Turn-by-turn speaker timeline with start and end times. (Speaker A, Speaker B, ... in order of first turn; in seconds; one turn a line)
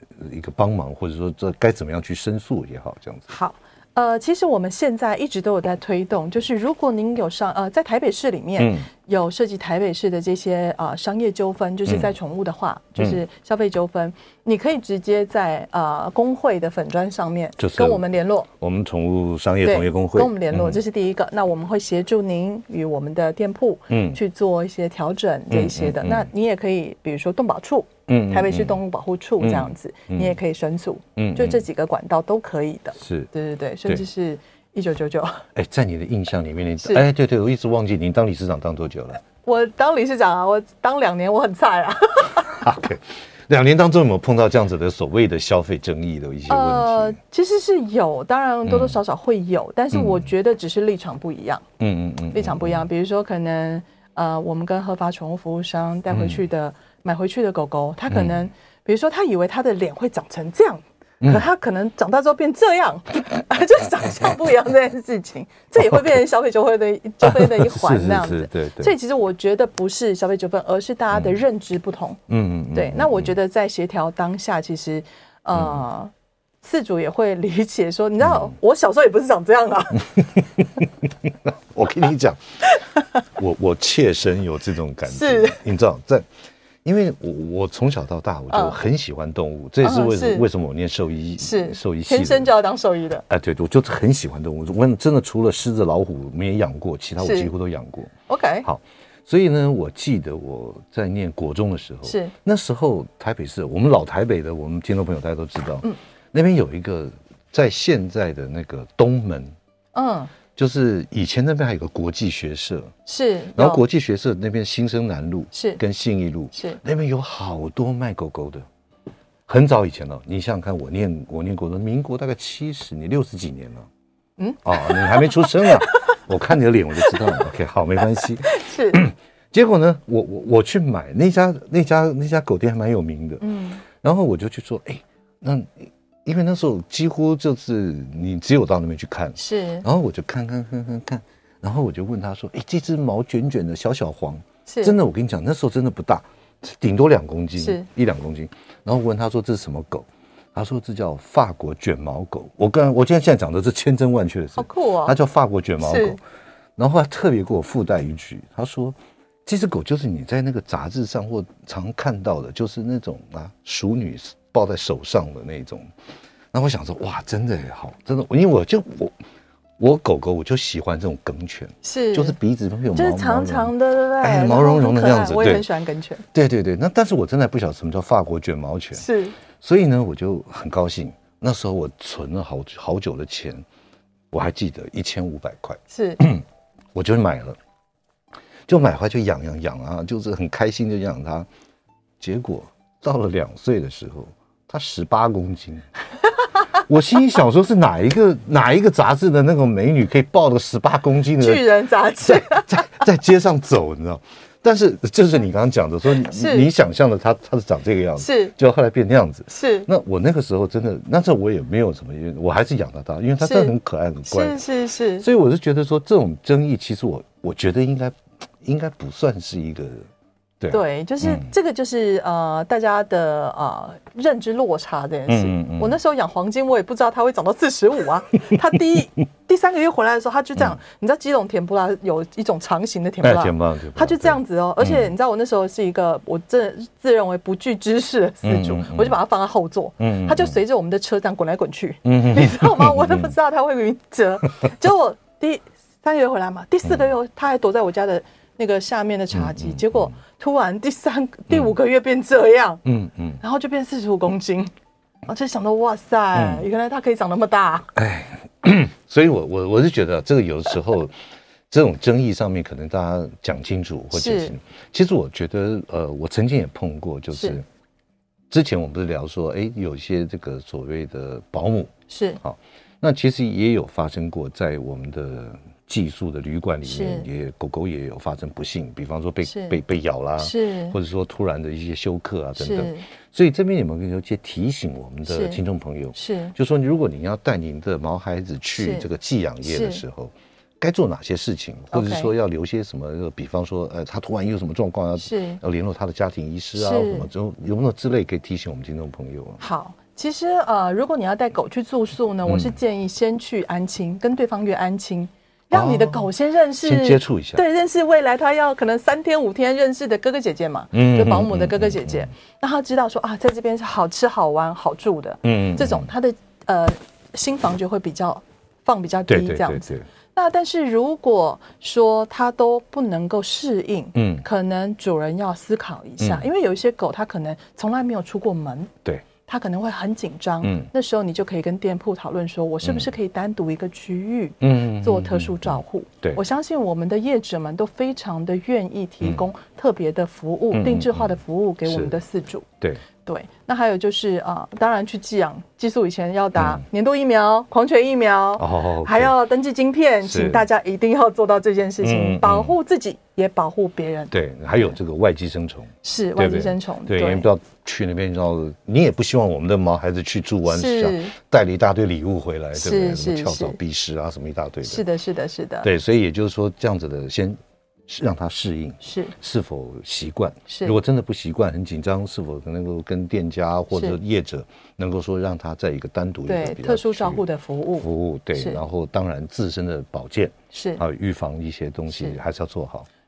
Speaker A: 0.2-3.3
Speaker B: 3.3-18.5
Speaker A: 8.6-8.9
Speaker A: 11.9-12.1
Speaker A: 13.0-13.2
Speaker A: 17.6-18.1
Speaker A: 18.6-20.8
Speaker B: 19.6-35.5
Speaker A: 23.9-24.2
Speaker A: 25.5-26.3
Speaker A: 28.1-28.8
Speaker A: 29.4-30.4
Speaker A: 31.2-31.6
Speaker A: 33.0-33.3
Speaker A: 35.5-39.2
Speaker B: 39.4-42.7
Speaker A: 42.5-47.2
Speaker B: 46.5-51.6
Speaker A: 48.7-49.0
Speaker A: 49.9-50.3
Speaker A: 51.8-52.9
Speaker B: 52.3-72.2
Speaker A: 56.1-56.4
Speaker A: 58.1-58.5
Speaker A: 67.2-69.0
Speaker A: 72.3-73.3
Speaker B: 72.7-80.3
Speaker A: 75.5-75.8
Speaker A: 78.3-78.5
Speaker A: 80.4-82.4
Speaker A: 83.2-86.3
Speaker B: 85.1-85.6
Speaker A: 86.8-92.5
Speaker B: 88.5-88.8
Speaker B: 89.8-90.5
Speaker B: 91.4-93.2
Speaker A: 93.3-98.1
Speaker B: 97.2-97.5
Speaker B: 98.3-98.7
Speaker A: 98.6-109.5
Speaker B: 102.1-102.3
Speaker B: 109.9-110.3
Speaker A: 110.6-112.9
Speaker B: 113.1-113.8
Speaker A: 113.5-118.7
Speaker B: 115.5-115.8
Speaker B: 116.5-116.8
Speaker A: 119.5-123.9
Speaker B: 124.4-126.2
Speaker A: 124.6-156.2
Speaker B: 127.0-127.5
Speaker B: 128.2-129.1
Speaker B: 133.4-133.8
Speaker B: 139.4-139.8
Speaker B: 144.7-144.9
Speaker B: 147.6-147.9
Speaker B: 154.6-155.2
Speaker B: 155.8-156.2
Speaker A: 156.8-165.9
Speaker A: 166.5-169.2
Speaker A: 169.8-175.7
Speaker B: 171.8-172.4
Speaker B: 172.9-176.2
Speaker A: 176.3-183.6
Speaker B: 179.0-179.4
Speaker A: 184.3-186.4
Speaker B: 185.9-186.2
Speaker A: 186.9-187.6
Speaker A: 188.7-191.5
Speaker A: 192.2-195.9
Speaker A: 196.7-201.7
Speaker B: 201.4-203.0
Speaker A: 202.2-214.6
Speaker B: 206.3-206.7
Speaker B: 208.2-208.5
Speaker B: 209.5-209.9
Speaker B: 213.4-213.7
Speaker B: 214.3-215.3
Speaker A: 215.2-220.1
Speaker A: 220.6-221.5
Speaker B: 220.7-252.8
Speaker A: 225.3-226.0
Speaker A: 233.2-235.1
Speaker A: 238.4-239.2
Speaker A: 240.0-240.6
Speaker A: 242.1-243.3
Speaker A: 249.3-250.2
Speaker A: 252.8-253.4
Speaker B: 253.4-254.7
Speaker B: 255.3-257.9
Speaker A: 256.3-256.6
Speaker A: 258.0-261.2
Speaker A: 261.7-267.6
Speaker B: 264.1-264.6
Speaker B: 267.3-267.6
Speaker A: 268.5-299.6
Speaker B: 272.1-272.4
Speaker B: 276.9-277.3
Speaker B: 279.4-279.8
Speaker B: 280.4-281.0
Speaker B: 282.6-283.1
Speaker B: 285.3-285.6
Speaker B: 286.1-286.5
Speaker B: 288.8-289.1
Speaker B: 289.6-290.0
Speaker B: 291.9-292.3
Speaker B: 295.2-295.6
Speaker B: 296.8-297.3
Speaker B: 299.6-342.7
Speaker A: 302.5-302.8
Speaker A: 305.7-307.6
Speaker A: 310.9-312.3
Speaker A: 315.4-316.1
Speaker A: 319.3-320.1
Speaker A: 324.1-324.5
Speaker A: 326.2-326.5
Speaker A: 330.6-330.9
Speaker A: 332.8-333.1
Speaker A: 334.6-336.4
Speaker A: 340.7-342.2
Speaker B: 343.2-354.3
Speaker A: 346.6-346.9
Speaker A: 348.6-349.3
Speaker A: 350.2-350.6
Speaker A: 352.0-352.8
Speaker A: 354.3-365.0
Speaker B: 356.0-357.5
Speaker B: 360.7-361.4
Speaker B: 362.8-363.8
Speaker B: 364.9-365.9
Speaker A: 365.8-377.4
Speaker B: 369.0-369.4
Speaker B: 370.7-371.0
Speaker B: 376.5-378.8
Speaker A: 378.0-383.1
Speaker B: 380.7-381.0
Speaker B: 382.1-382.4